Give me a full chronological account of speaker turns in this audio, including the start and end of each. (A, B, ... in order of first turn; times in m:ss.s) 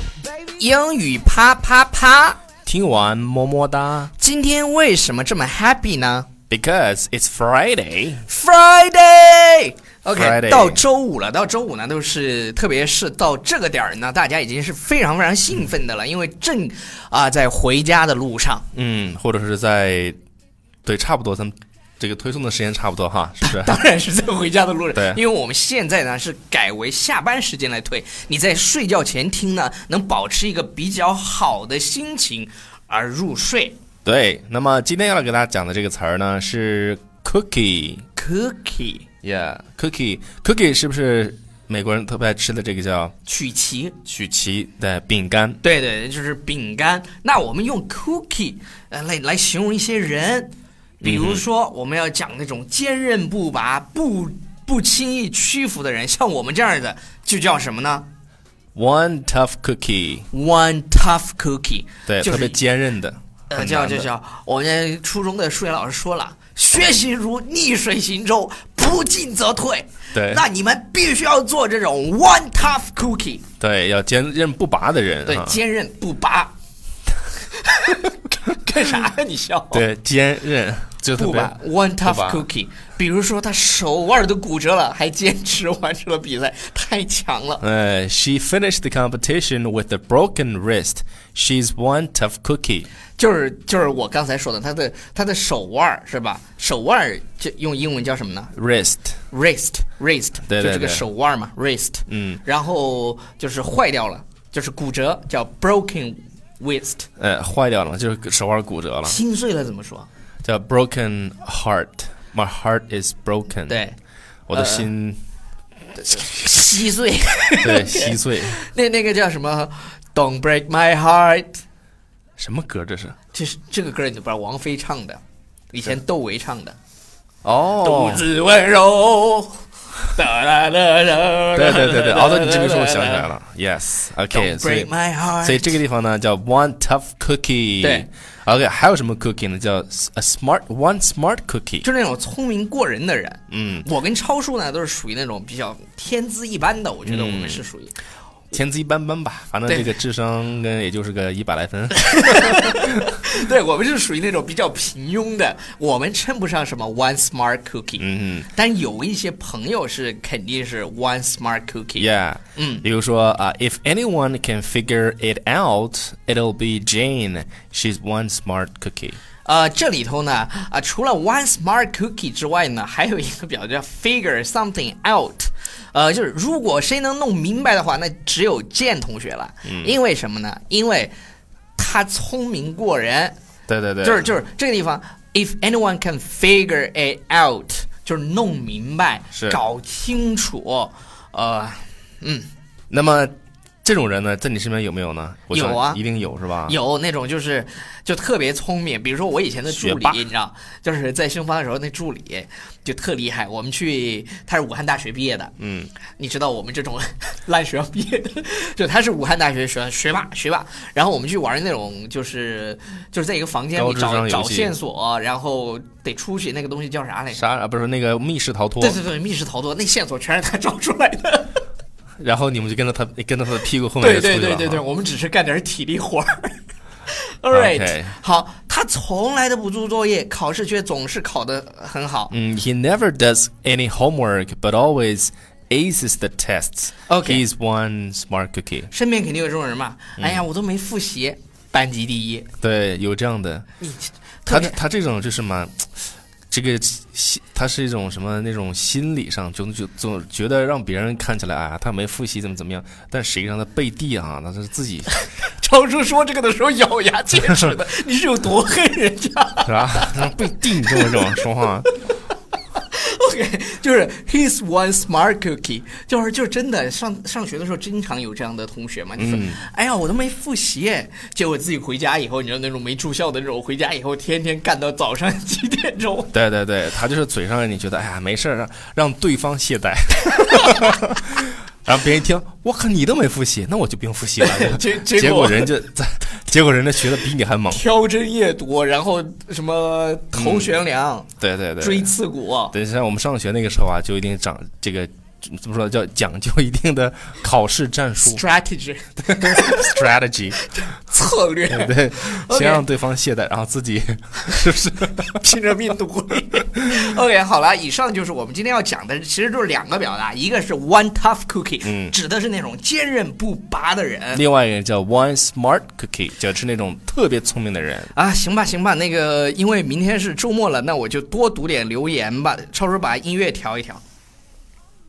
0:00.6-0:02.4 A
0:02.6-0:04.1 B
0:04.2-0:06.3 A
0:06.5-0:08.2 B
0:08.3-0:18.6 A
0:10.1-0:10.8 B
0:18.7-0:20.2 B
0:20.8-0:23.8 B
0:23.4-0:33.8 A
0:34.0-0:38.0 B
0:38.2-0:39.1 A
0:39.2-0:43.1 B
0:43.2-0:44.0 A
0:44.0-0:45.6 B
0:45.6-0:58.0 A
0:51.0-0:51.4 B
0:58.7-1:00.3 B
1:00.3-1:02.6 A
1:02.1-1:04.1 B
1:03.5-1:13.4 A
1:10.1-1:10.4 B
1:13.6-1:15.6 B
1:15.2-1:16.5 A
1:17.6-1:19.8 A
1:19.7-1:22.4 B
1:21.2-1:27.6 A
1:27.6-1:32.9 B
1:33.2-1:38.5 A
1:38.6-1:39.2 B
1:39.3-1:47.1 A
1:40.5-1:41.0 B
1:42.1-1:42.4 B
1:47.2-1:49.2 B
1:49.0-1:50.1 A
1:50.4-1:53.8 B
1:53.7-1:54.0 A
1:54.5-1:55.2 B
1:54.5-1:54.9 A
1:56.0-2:01.6 A
1:57.6-1:58.5 B
2:02.4-2:03.2 B
2:03.3-2:05.2 A
2:05.7-2:06.8 A
2:07.4-2:08.3 B
2:07.8-2:13.3 A
2:11.5-2:14.9 B
2:14.3-2:15.8 A
2:15.4-2:21.8 B
2:17.8-2:18.1 A
2:21.8-2:27.9 A
2:23.5-2:23.8 B
2:27.0-2:27.6 B
2:28.5-2:32.8 B
2:32.1-2:42.8 A
2:38.0-2:38.5 B
2:42.0-2:49.2 B
2:49.4-3:01.1 A
2:59.6-2:59.9 B
3:01.8-3:03.3 A
3:03.7-3:04.3 B
3:04.0-3:12.5 A
3:09.3-3:09.6 B
3:12.9-3:16.8 B
3:15.5-3:16.0 A
3:16.6-3:25.5 A
3:19.7-3:20.2 B
3:25.6-3:25.9 B
3:26.2-3:37.4 A
3:33.8-3:34.7 B
3:37.3-3:39.0 B
3:38.8-3:41.6 A
3:42.2-3:44.8 B
3:44.0-3:52.3 A
3:47.5-3:48.1 B
3:52.3-3:58.9 B
3:57.1-3:57.4 A
3:58.9-4:02.5 A
4:00.2-4:00.4 B
4:02.6-4:03.7 B
4:03.8-4:04.7 A
4:04.5-4:05.9 B
4:06.5-4:15.1 B
4:15.4-4:21.2 A
4:19.6-4:21.9 B
4:22.7-4:36.4 A
4:29.2-4:29.6 B
4:36.3-4:47.8 B
4:44.4-4:45.7 A
4:47.7-4:51.3 A
4:50.3-4:50.7 B
4:51.4-4:52.1 B
4:51.8-4:52.7 A
4:52.7-4:58.4 B
4:58.2-5:00.0 A
4:59.3-5:00.6 B
5:00.6-5:02.8 A
5:01.7-5:05.4 B
5:05.3-5:14.4 A
5:11.8-5:12.1 B
5:14.3-5:18.1 B
5:18.1-5:24.0 A